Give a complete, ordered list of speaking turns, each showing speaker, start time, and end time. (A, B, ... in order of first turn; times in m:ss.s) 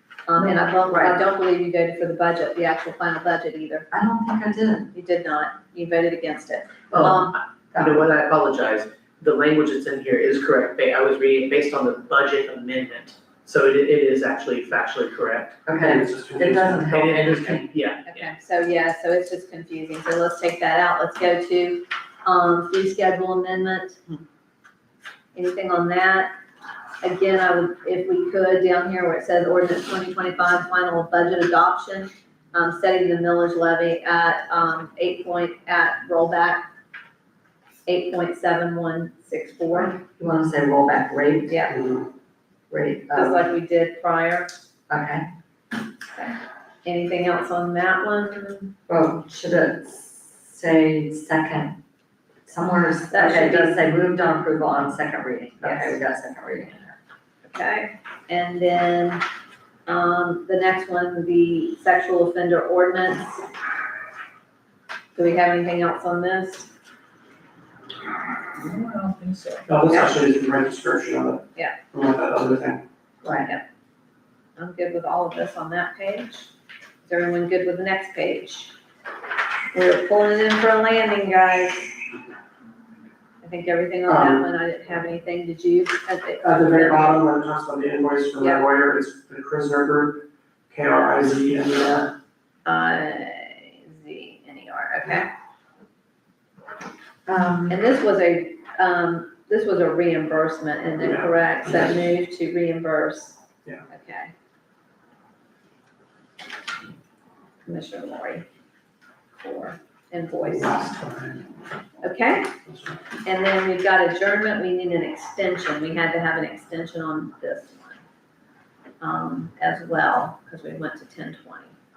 0:00.2-0:03.9 A
0:00.4-0:01.2 B
0:03.9-0:04.9 B
0:04.9-0:07.3 A
0:06.9-0:07.2 C
0:07.7-0:08.0 B
0:07.7-0:15.9 C
0:15.6-0:17.6 B
0:15.8-0:16.9 D
0:16.9-0:18.3 C
0:18.1-0:24.0 A
0:25.3-0:26.3 A
0:27.0-0:36.6 A
0:37.8-0:40.0 A
0:39.8-0:41.6 B
0:41.5-0:41.7 A
0:41.7-0:42.1 D
0:42.7-0:43.4 B
0:43.1-0:44.5 A
0:44.9-0:45.2 B
0:46.1-0:48.7 A
0:48.9-0:51.8 B
0:52.4-0:57.0 B
0:53.1-0:53.8 A
0:55.6-0:55.9 A
0:57.4-0:59.2 A
0:59.8-1:03.4 A
1:05.1-1:06.7 A
1:08.5-1:09.6 C
1:09.7-1:12.8 D
1:13.2-1:13.5 B
1:14.6-1:16.5 A
1:17.0-1:18.7 A
1:19.7-1:22.0 A
1:23.4-1:27.2 A
1:24.0-1:24.4 D
1:26.4-1:32.1 D
1:32.6-1:35.3 A
1:37.2-1:37.8 B
1:37.7-1:44.3 A
1:41.0-1:42.1 D
1:47.6-1:48.4 A
1:49.4-1:50.8 A
1:50.4-1:51.5 D
1:52.0-1:52.5 A
1:52.6-1:53.0 D
1:53.2-1:58.0 A
1:59.0-2:01.7 A